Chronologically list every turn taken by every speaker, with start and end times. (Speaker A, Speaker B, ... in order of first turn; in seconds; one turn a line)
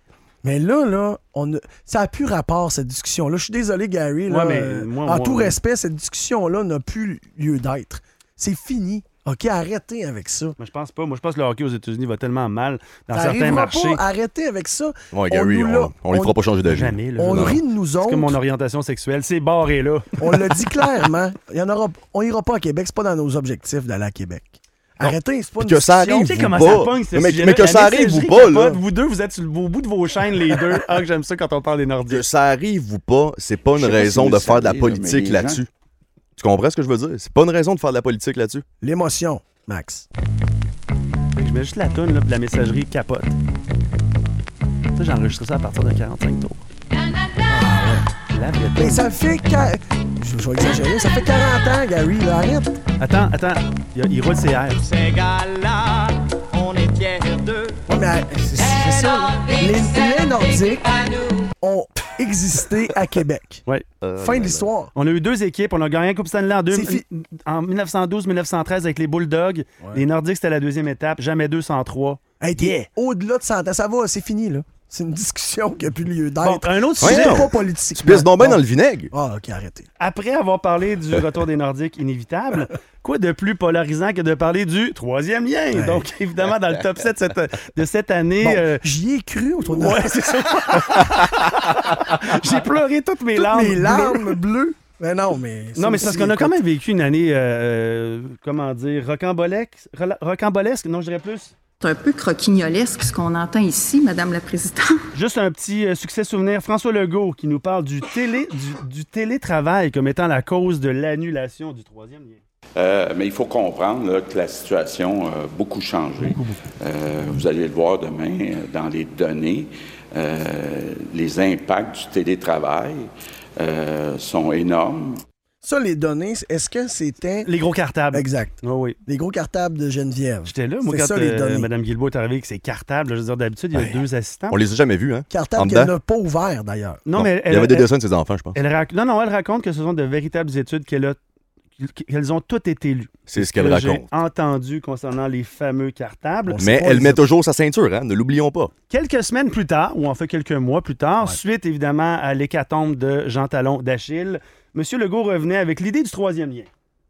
Speaker A: 0.4-10.6
Speaker B: 4.3-5.6
Speaker B: 10.6-14.0
Speaker A: 13.1-16.4
Speaker C: 15.1-17.6
Speaker B: 16.7-20.2
Speaker A: 17.2-18.4
Speaker A: 20.2-26.2
Speaker C: 25.6-28.8
Speaker B: 26.0-32.2
Speaker C: 32.1-35.7
Speaker D: 33.8-35.6
Speaker C: 36.4-38.6
Speaker A: 38.8-40.1
Speaker B: 41.4-43.4
Speaker B: 45.0-46.6
Speaker A: 47.5-48.1
Speaker B: 48.3-49.1
Speaker A: 48.8-52.7
Speaker B: 53.0-54.8
Speaker E: 54.8-57.8
Speaker A: 57.9-61.0
Speaker A: 61.6-63.6
Speaker C: 64.0-64.7
Speaker A: 64.2-64.9
Speaker B: 65.0-72.9
Speaker A: 66.7-67.0
Speaker A: 72.4-79.9
Speaker B: 76.4-77.5
Speaker C: 77.0-79.1
Speaker B: 80.0-88.8
Speaker A: 85.7-86.1
Speaker A: 88.4-90.8
Speaker B: 89.7-94.4
Speaker A: 93.3-96.6
Speaker B: 95.8-101.5
Speaker F: 101.8-105.0
Speaker B: 105.1-112.4
Speaker D: 112.8-125.2
Speaker B: 116.2-116.6
Speaker A: 125.6-127.5
Speaker B: 127.5-129.0
Speaker A: 128.1-131.7
Speaker B: 130.5-134.6
Speaker C: 134.5-135.9
Speaker A: 135.3-137.0
Speaker B: 137.1-137.9
Speaker C: 137.1-138.6
Speaker B: 138.5-141.2
Speaker B: 141.8-146.7
Speaker C: 143.3-144.1
Speaker A: 146.5-147.2
Speaker C: 146.6-148.7
Speaker B: 148.9-156.7